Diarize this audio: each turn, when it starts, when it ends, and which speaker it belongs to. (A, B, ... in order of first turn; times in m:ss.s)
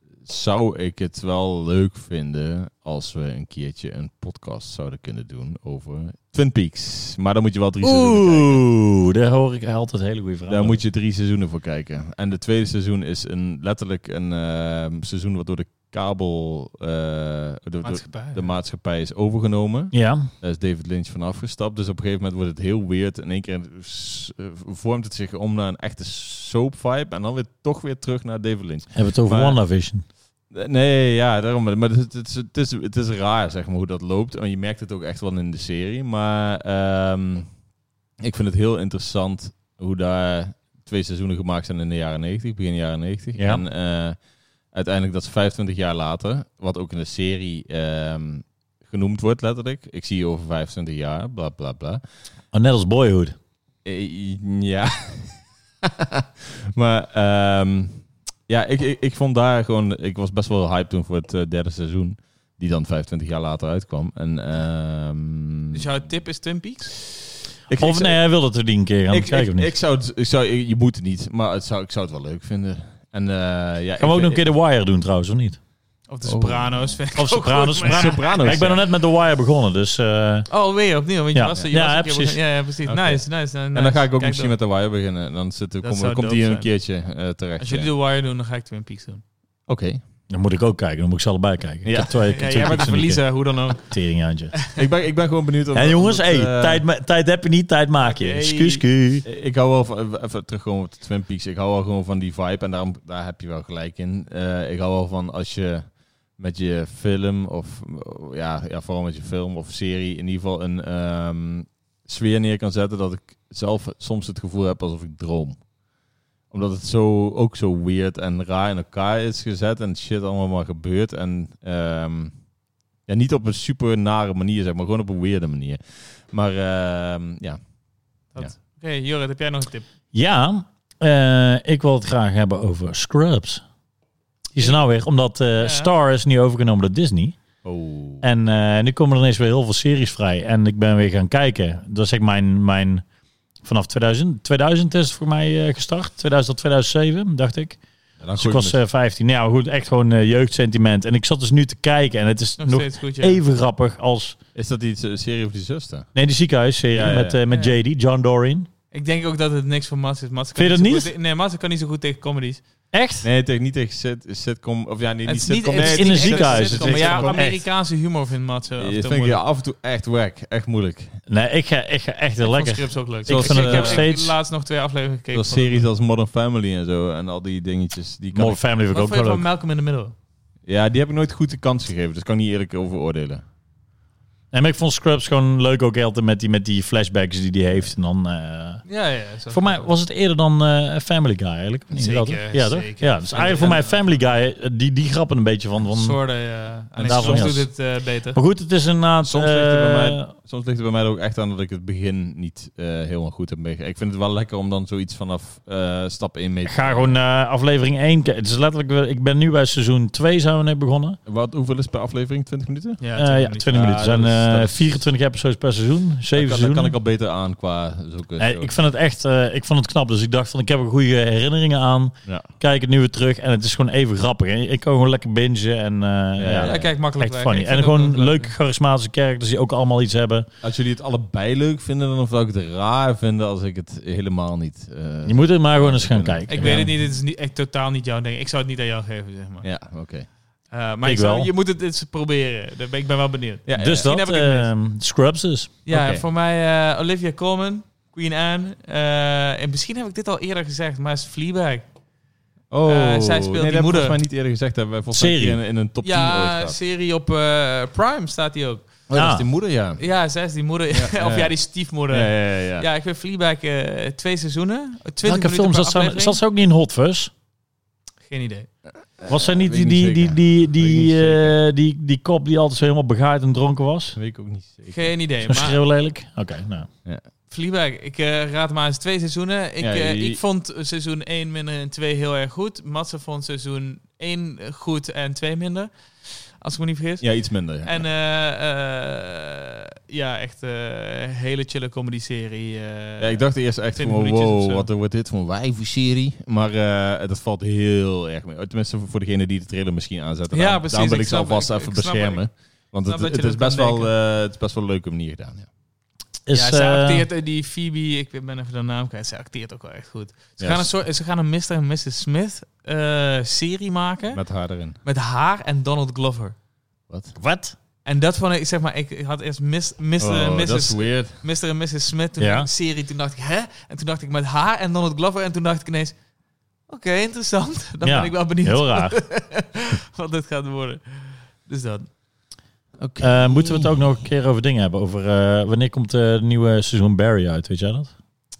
0:00.2-0:08.6 A
0:07.8-0:10.8 B
0:10.5-0:29.6 A
0:17.8-0:18.5 C
0:19.9-0:20.3 B
0:28.9-0:30.0 B
0:30.5-0:37.5 A
0:38.2-0:44.2 A
0:43.4-0:43.6 B
0:44.7-0:52.0 A
0:52.5-0:53.4 B
0:53.8-1:05.8 A
1:05.7-1:07.0 C
1:07.7-1:08.2 A
1:07.8-1:09.7 B
1:09.1-1:14.4 A
1:14.0-1:15.6 B
1:16.1-1:18.7 C
1:16.2-1:17.0 A
1:17.2-1:20.5 B
1:17.8-1:18.8 A
1:20.5-1:24.6 C
1:21.3-1:22.4 B
1:22.9-1:27.9 A
1:25.8-1:26.7 C
1:27.6-1:29.2 C
1:29.7-1:30.0 A
1:30.3-1:33.2 B
1:31.8-1:32.2 A
1:32.1-1:33.9 C
1:33.8-1:34.6 B
1:34.7-1:36.8 A
1:35.7-1:39.2 B
1:38.0-1:38.8 C
1:39.2-1:55.7 A
1:56.5-2:02.4 A
2:03.1-2:07.6 A
2:08.4-2:09.8 C
2:10.1-2:13.6 B
2:14.5-2:17.4 B
2:15.6-2:15.9 C
2:17.6-2:18.3 A
2:18.2-2:23.0 B
2:23.6-2:27.8 B
2:28.2-2:28.8 A
2:28.4-2:34.4 B
2:32.6-2:33.4 C
2:34.6-2:36.1 A
2:36.2-2:38.7 B
2:36.9-2:37.4 A
2:37.5-2:37.8 C
2:38.9-2:42.6 C
2:40.6-2:41.1 B
2:42.9-2:43.2 B
2:43.2-2:47.5 A
2:45.3-2:49.4 C
2:45.8-2:47.6 B
2:48.8-2:51.1 A
2:51.3-2:54.4 B
2:52.4-2:55.9 C
2:53.3-2:54.1 A
2:55.3-2:58.6 A
2:58.3-2:59.5 B
2:58.9-3:00.2 C
3:00.7-3:03.4 A
3:04.5-3:08.8 B
3:08.9-3:09.9 C
3:09.5-3:16.2 B
3:11.9-3:14.2 C
3:15.9-3:18.4 C
3:16.9-3:17.6 A
3:17.0-3:17.7 B
3:18.3-3:20.3 B
3:19.2-3:27.2 A
3:26.7-3:31.2 B
3:31.3-3:33.0 A
3:33.0-3:33.8 C
3:33.2-3:36.9 B
3:33.7-3:35.0 A
3:36.3-3:38.7 A
3:38.4-3:50.5 B
3:46.4-3:46.9 A
3:46.5-3:48.5 C
3:50.6-3:56.9 A
3:55.3-3:56.9 B
3:56.5-3:59.7 C
3:59.6-4:00.3 A
4:00.7-4:04.7 C
4:01.0-4:01.5 B
4:03.7-4:04.1 A
4:03.8-4:05.7 B
4:05.9-4:11.8 C
4:05.9-4:06.2 A
4:12.7-4:16.8 A
4:12.9-4:14.2 C
4:15.2-4:15.6 B
4:16.0-4:18.9 C
4:19.1-4:20.0 A
4:19.1-4:19.4 B
4:20.0-4:26.4 C
4:20.9-4:21.6 A
4:22.1-4:22.9 A
4:25.2-4:27.3 B
4:28.3-4:28.7 C
4:29.2-4:31.6 A
4:29.3-4:34.2 B
4:34.2-4:35.1 A
4:34.9-4:35.8 C
4:35.5-4:36.9 B
4:37.5-4:54.9 C
4:39.8-4:40.4 A
4:47.2-4:48.0 A
4:53.2-5:05.7 A
5:00.5-5:02.4 C
5:03.1-5:04.1 C
5:06.5-5:07.3 B
5:06.5-5:14.4 C
5:10.6-5:10.9 A
5:14.3-5:15.0 A
5:15.0-5:16.6 C
5:17.1-5:17.3 A
5:17.4-5:17.8 B
5:18.0-5:26.2 C
5:20.2-5:21.4 A
5:22.4-5:22.7 B
5:26.9-5:32.1 C
5:28.0-5:29.2 B
5:33.0-5:34.1 A
5:33.2-5:38.1 B